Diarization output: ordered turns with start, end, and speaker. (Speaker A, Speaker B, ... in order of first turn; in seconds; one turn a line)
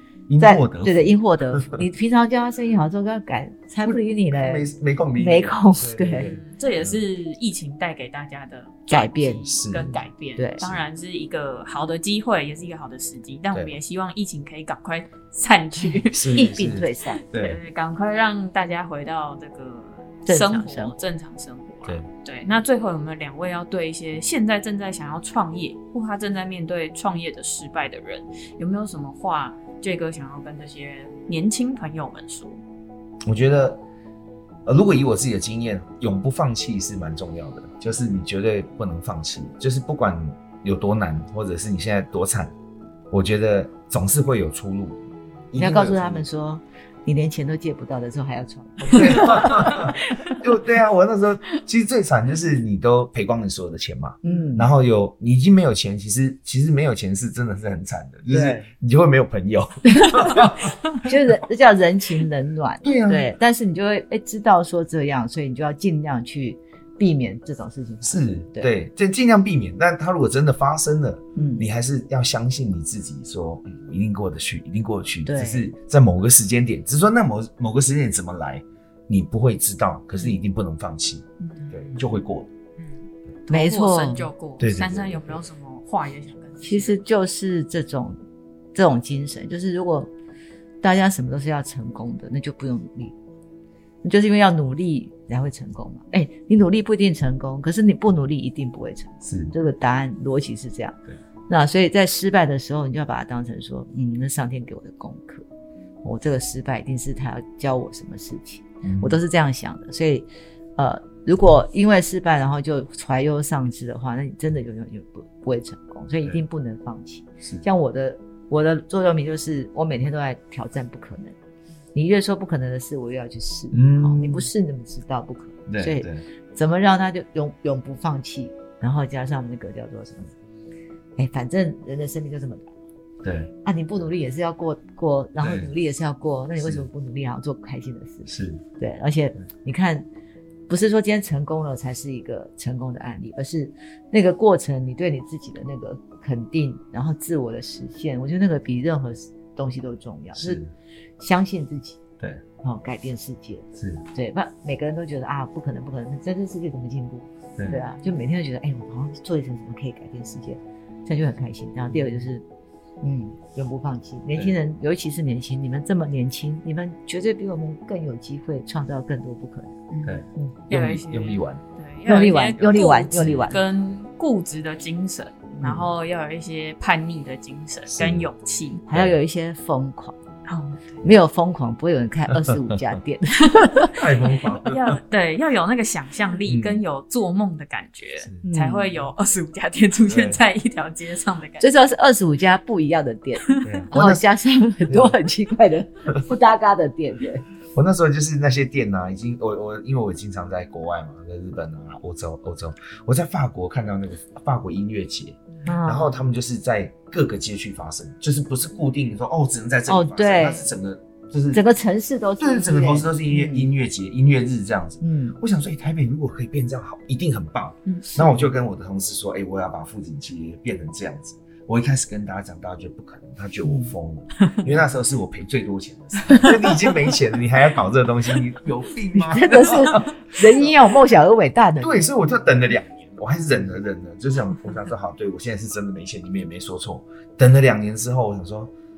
Speaker A: 0.3-1.8
Speaker B: 0.4-6.3
Speaker A: 3.8-7.0
Speaker C: 6.1-16.3
Speaker B: 8.9-9.4
Speaker A: 9.5-10.0
Speaker B: 10.4-10.6
Speaker A: 10.6-10.8
Speaker A: 13.5-13.8
Speaker B: 15.8-17.2
Speaker A: 16.1-17.6
Speaker C: 17.2-32.6
Speaker B: 20.2-20.9
Speaker A: 33.2-33.8
Speaker A: 34.6-42.5
Speaker A: 43.1-46.2
Speaker B: 45.5-50.4
Speaker A: 48.8-61.1
Speaker B: 54.2-54.7
Speaker B: 58.3-58.7
Speaker B: 59.9-60.5
Speaker B: 61.0-68.7
Speaker A: 62.8-63.3
Speaker A: 68.0-82.5
Speaker B: 71.3-71.7
Speaker B: 75.2-75.7
Speaker C: 81.4-81.8
Speaker C: 82.8-87.0
Speaker B: 83.5-84.3
Speaker A: 84.6-85.5
Speaker B: 86.6-88.2
Speaker B: 88.7-90.1
Speaker B: 90.8-93.1
Speaker B: 94.0-105.4
Speaker A: 99.2-99.5
Speaker B: 106.0-121.3
Speaker A: 108.8-109.2
Speaker B: 121.9-130.3
Speaker A: 123.7-124.5
Speaker A: 125.7-126.2
Speaker B: 131.2-132.7
Speaker A: 133.2-133.5
Speaker B: 133.6-140.1
Speaker A: 135.4-135.7
Speaker A: 136.6-136.9
Speaker A: 138.2-138.6
Speaker B: 140.7-150.6
Speaker A: 150.3-150.7
Speaker B: 151.2-152.0
Speaker B: 152.6-162.4
Speaker A: 153.8-154.0
Speaker A: 161.9-162.3
Speaker B: 163.0-170.6
Speaker A: 170.0-171.6
Speaker C: 170.7-178.8
Speaker B: 172.1-173.6
Speaker A: 172.6-173.6
Speaker A: 177.9-178.3
Speaker B: 178.9-180.2
Speaker C: 180.4-180.9
Speaker B: 181.0-183.9
Speaker A: 182.3-183.0
Speaker C: 183.8-191.7
Speaker A: 183.9-185.0
Speaker A: 186.4-186.8
Speaker B: 188.4-189.0
Speaker A: 190.1-190.4
Speaker B: 191.6-197.4
Speaker A: 193.6-194.2
Speaker A: 194.9-195.2
Speaker A: 197.7-211.6
Speaker B: 205.7-206.1
Speaker B: 209.9-210.7
Speaker B: 211.5-213.7
Speaker A: 212.4-230.8
Speaker B: 215.0-215.4
Speaker C: 217.9-218.1
Speaker B: 218.1-218.5
Speaker B: 223.6-223.9
Speaker B: 229.1-232.2
Speaker A: 231.8-238.7